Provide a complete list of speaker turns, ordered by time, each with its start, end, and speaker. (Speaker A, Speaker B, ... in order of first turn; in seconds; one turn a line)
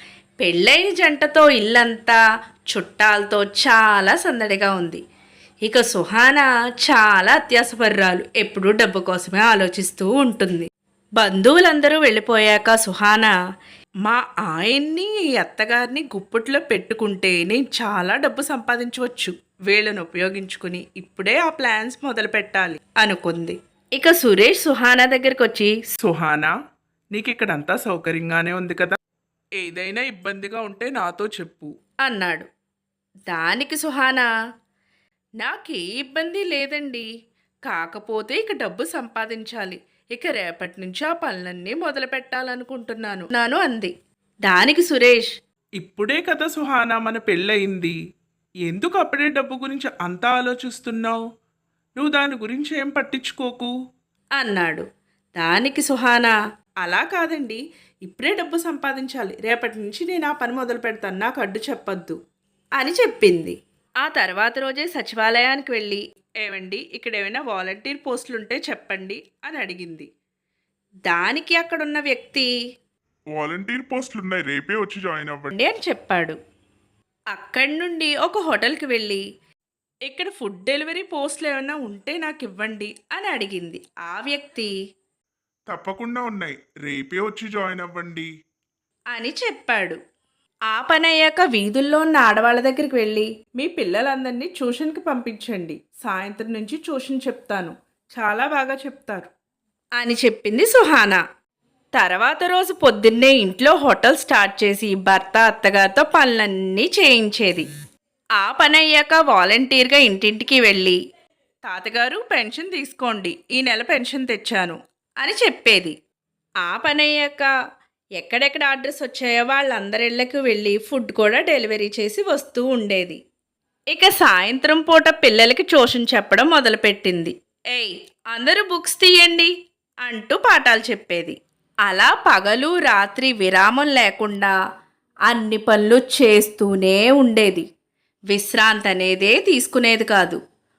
Speaker A: 0.4-2.2
Speaker A: 2.7-5.0
Speaker A: 5.6-13.3
Speaker A: 14.0-25.8
Speaker B: 26.0-26.5
Speaker B: 27.1-29.0
Speaker B: 29.6-31.7
Speaker A: 32.0-32.5
Speaker A: 33.3-34.3
Speaker A: 35.4-37.0
Speaker A: 37.7-43.9
Speaker A: 44.5-45.3
Speaker B: 45.8-48.0
Speaker B: 48.7-51.2
Speaker B: 52.0-53.7
Speaker A: 54.4-54.8
Speaker A: 55.4-62.2
Speaker A: 62.8-70.1
Speaker A: 71.1-72.5
Speaker C: 73.3-75.5
Speaker A: 75.5-76.3
Speaker A: 77.3-79.2
Speaker A: 80.0-84.7
Speaker B: 85.7-88.3
Speaker A: 89.1-90.0
Speaker A: 90.7-99.3
Speaker A: 100.0-101.2
Speaker A: 101.9-107.7
Speaker A: 108.4-111.0
Speaker A: 111.6-115.9
Speaker A: 116.6-117.5
Speaker A: 118.2-123.2
Speaker A: 123.9-129.5
Speaker A: 130.0-131.3
Speaker A: 131.8-134.5
Speaker A: 135.3-137.6
Speaker A: 138.3-140.4